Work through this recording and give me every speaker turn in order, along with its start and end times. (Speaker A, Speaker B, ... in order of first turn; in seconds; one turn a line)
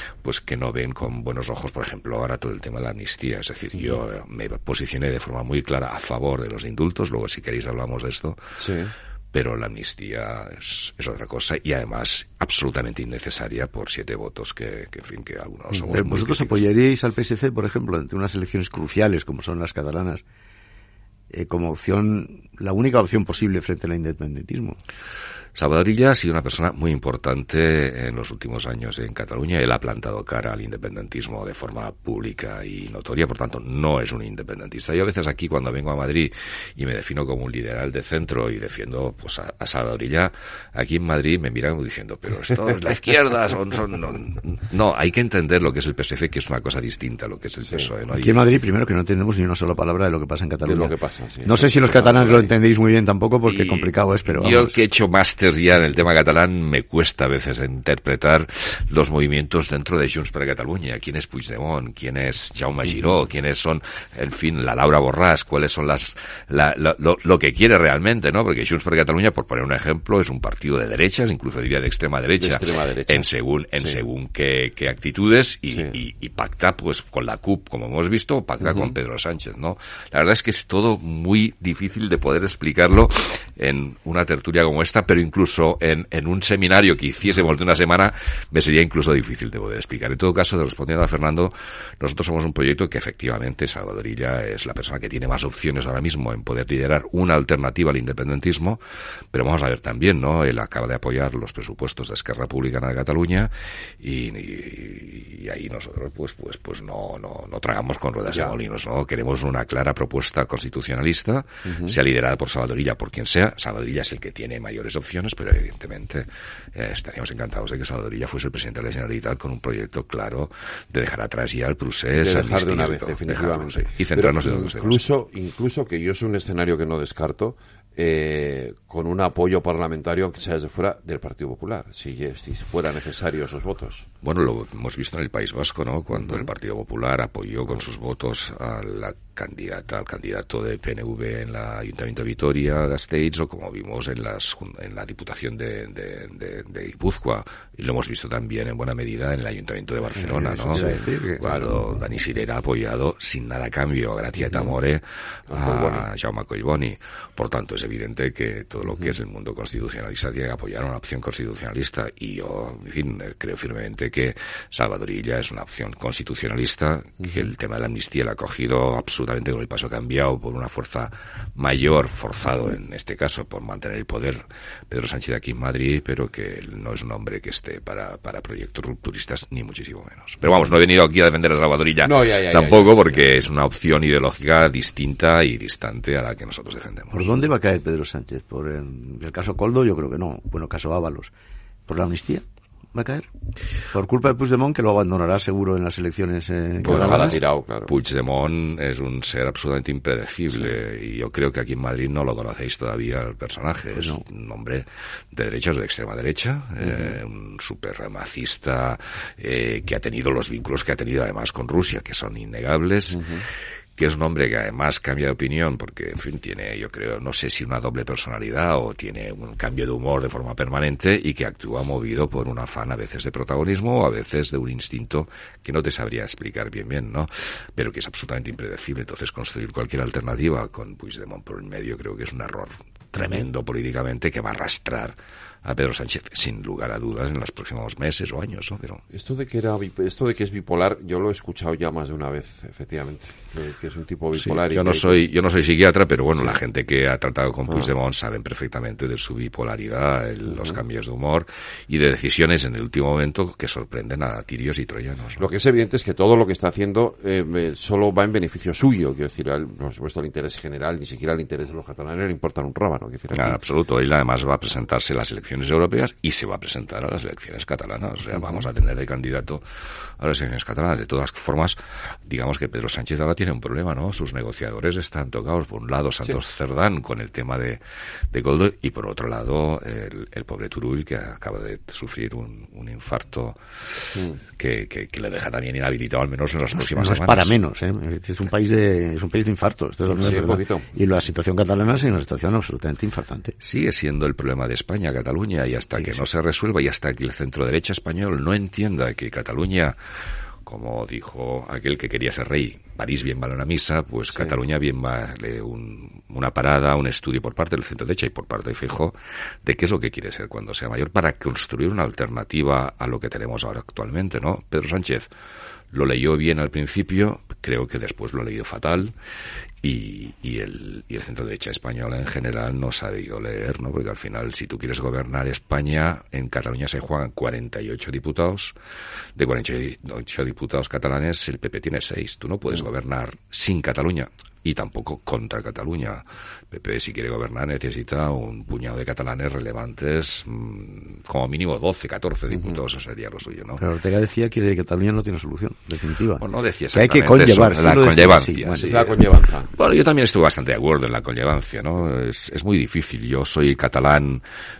Speaker A: 0.2-8.4
Speaker B: 8.6-8.9
Speaker A: 9.3-16.7
Speaker C: 15.9-20.2
Speaker C: 21.3-24.8
Speaker A: 25.6-48.4
Speaker C: 48.1-50.9
Speaker B: 50.6-51.9
Speaker C: 51.5-54.8
Speaker A: 51.6-52.5
Speaker A: 53.5-98.8
Speaker B: 72.4-73.3
Speaker B: 78.6-78.9
Speaker A: 99.3-125.1
Speaker B: 108.3-108.6
Speaker B: 111.7-112.0
Speaker B: 122.2-134.1
Speaker A: 134.2-187.3
Speaker C: 150.2-151.7
Speaker B: 151.4-151.8
Speaker B: 154.4-154.8
Speaker B: 155.5-156.1
Speaker B: 182.0-183.3
Speaker C: 187.1-191.3
Speaker C: 191.9-193.3
Speaker C: 193.9-197.4
Speaker B: 196.8-197.9
Speaker A: 196.9-213.2
Speaker C: 203.9-204.2
Speaker B: 206.8-207.2
Speaker B: 213.1-213.4
Speaker A: 214.0-239.0
Speaker B: 239.1-245.2
Speaker A: 244.4-255.4
Speaker B: 250.5-250.8
Speaker B: 255.4-263.6
Speaker A: 263.3-269.6
Speaker A: 270.2-287.6
Speaker C: 286.8-293.6
Speaker B: 290.1-290.9
Speaker A: 293.6-300.0
Speaker A: 300.6-315.3
Speaker A: 315.9-319.1
Speaker A: 319.8-328.8
Speaker A: 329.4-343.8
Speaker C: 343.8-349.0
Speaker A: 346.4-349.2
Speaker B: 348.8-349.7
Speaker A: 349.7-354.4